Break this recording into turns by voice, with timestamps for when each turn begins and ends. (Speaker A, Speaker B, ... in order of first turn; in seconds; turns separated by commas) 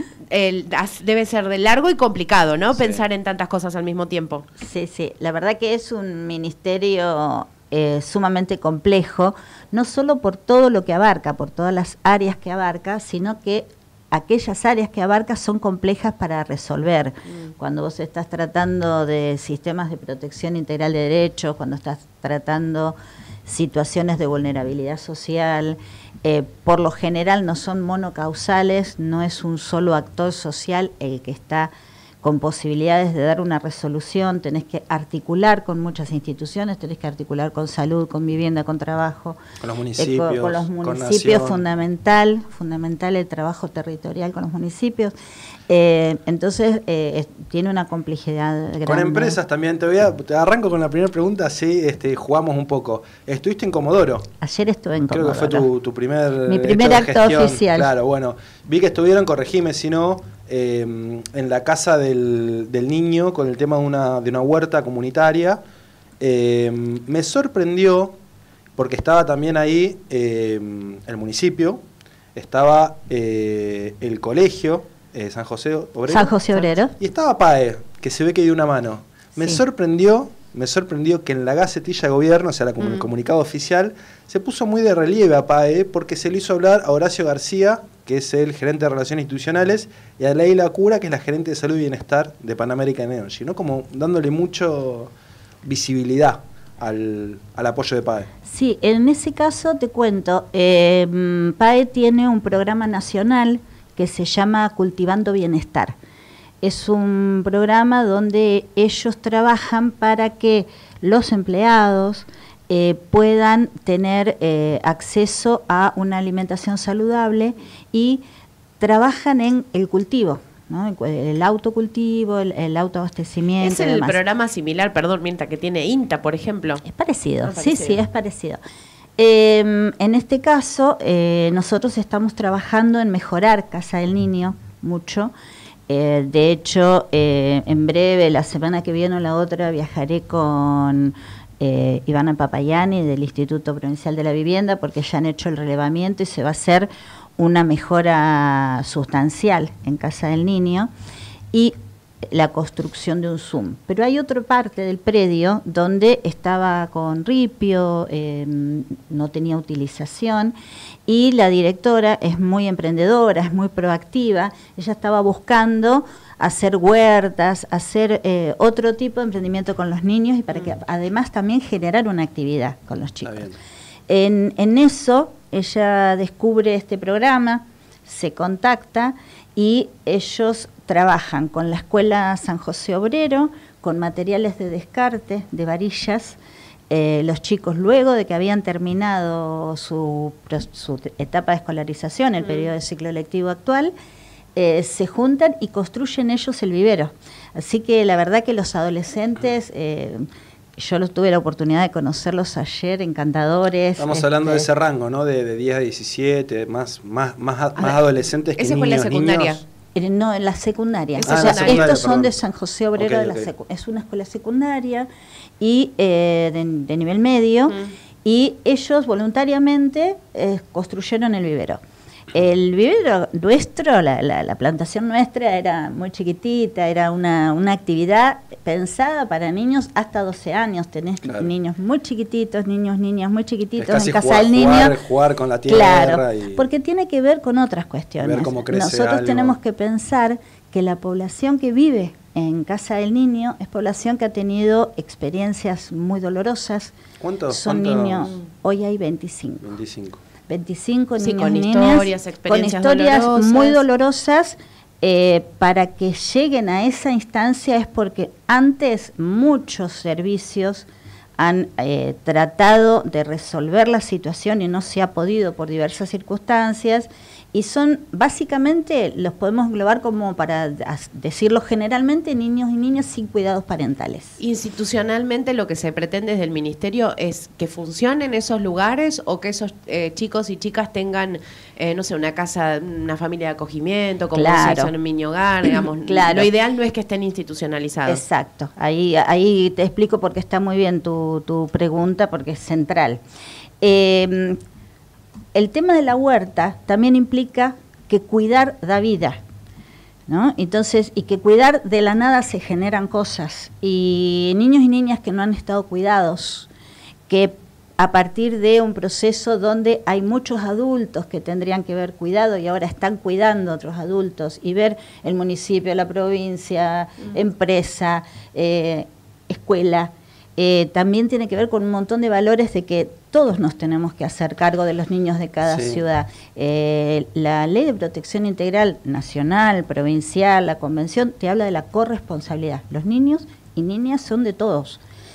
Speaker A: 0.3-4.5, Speaker B: 2.7-3.0, Speaker C: 4.6-31.7, Speaker C: 32.2-39.4, Speaker B: 39.6-41.6, Speaker C: 40.0-45.1, Speaker C: 45.7-49.4, Speaker B: 48.8-54.3, Speaker C: 54.4-55.7, Speaker B: 55.1-65.6, Speaker C: 56.5-57.9, Speaker B: 66.2-68.2, Speaker B: 68.8-71.8, Speaker B: 72.3-95.1, Speaker C: 76.1-76.9, Speaker B: 95.6-98.3, Speaker C: 98.4-106.0, Speaker C: 106.6-118.2, Speaker C: 118.8-124.2, Speaker A: 123.6-126.8, Speaker C: 126.8-128.6, Speaker A: 127.4-128.0, Speaker C: 129.2-135.3, Speaker C: 135.9-150.9, Speaker C: 151.5-160.5, Speaker C: 161.1-173.5, Speaker B: 173.2-173.6, Speaker C: 174.1-186.4, Speaker C: 186.9-193.9, Speaker C: 194.5-200.2, Speaker C: 200.8-204.7, Speaker B: 204.0-209.6, Speaker A: 208.6-209.6, Speaker C: 209.9-215.1, Speaker A: 211.2-212.0, Speaker B: 211.2-212.3, Speaker B: 213.0-213.5, Speaker C: 215.6-221.8, Speaker C: 222.3-234.9, Speaker B: 233.8-236.7, Speaker C: 235.7-246.9, Speaker B: 238.2-239.6, Speaker B: 247.2-248.3, Speaker C: 247.5-249.7, Speaker B: 249.6-250.2, Speaker C: 250.5-274.4, Speaker A: 251.2-253.8, Speaker A: 274.4-288.2, Speaker C: 284.3-284.9, Speaker C: 285.6-286.5, Speaker C: 288.1-293.2, Speaker C: 293.8-294.6, Speaker C: 295.5-299.4, Speaker C: 300.3-306.7, Speaker C: 307.3-335.0, Speaker B: 325.7-326.0